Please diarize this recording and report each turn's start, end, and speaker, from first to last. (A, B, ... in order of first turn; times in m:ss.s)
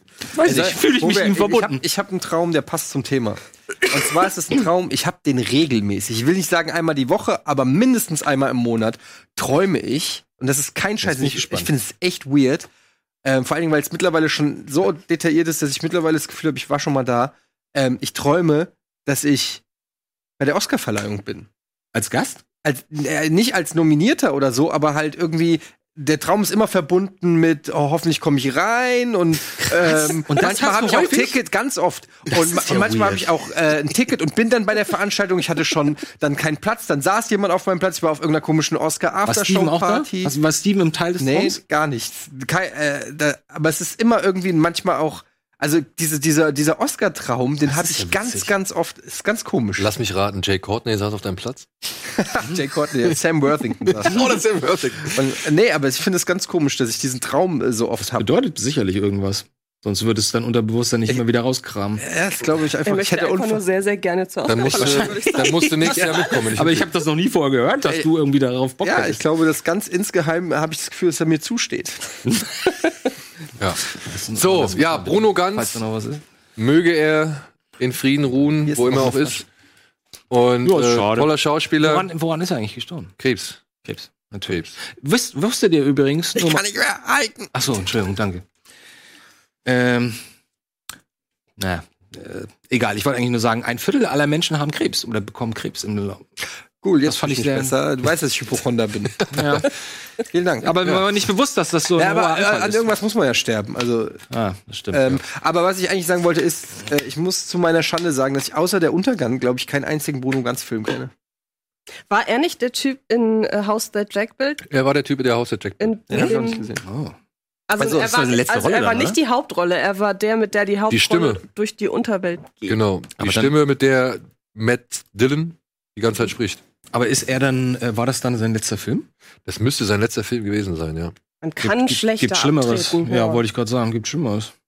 0:00.3-0:01.8 A
0:00.4-0:12.7 B
0:11.0-0:11.7 A
0:13.2-0:19.6 B
0:20.4-0:21.5 B
0:21.9-0:22.4 A
0:22.6-0:40.4 B
0:29.8-0:31.4 A
0:32.3-0:33.3 A
0:39.3-0:41.6 A
0:41.2-0:49.9 B
0:47.7-0:48.5 A
0:49.8-0:51.7 C
0:52.2-0:54.3 B
0:54.0-0:55.2 C
0:55.1-0:58.3 B
0:58.0-1:02.0 A
1:02.0-1:03.6 B
1:02.9-1:06.3 D
1:04.5-1:06.9 C
1:04.7-1:09.2 A
1:07.8-1:08.1 B
1:08.8-1:12.1 B
1:13.6-1:15.8 C
1:14.0-1:16.2 A
1:16.6-1:19.5 C
1:18.7-1:19.3 B
1:20.3-1:22.1 C
1:20.6-1:23.1 A
1:23.2-1:23.6 C
1:23.8-1:26.7 A
1:26.4-1:27.5 B
1:27.5-1:28.4 A
1:29.7-1:30.2 A
1:31.6-1:36.2 A
1:36.8-1:39.7 B
1:37.1-1:37.8 A
1:39.3-1:39.7 A
1:40.2-1:41.0 B
1:40.6-1:42.9 A
1:42.0-1:44.2 B
1:44.3-1:45.2 A
1:44.9-1:51.1 B
1:52.1-1:54.6 D
1:54.7-1:55.9 C
1:55.8-1:56.6 D
1:56.1-1:56.8 B
1:56.8-1:57.2 A
1:57.7-2:02.8 D
1:57.8-1:59.2 A
2:00.9-2:01.4 C
2:02.7-2:06.6 C
2:03.2-2:03.6 A
2:06.9-2:09.1 A
2:09.5-2:11.1 C
2:11.4-2:13.4 D
2:11.6-2:14.5 A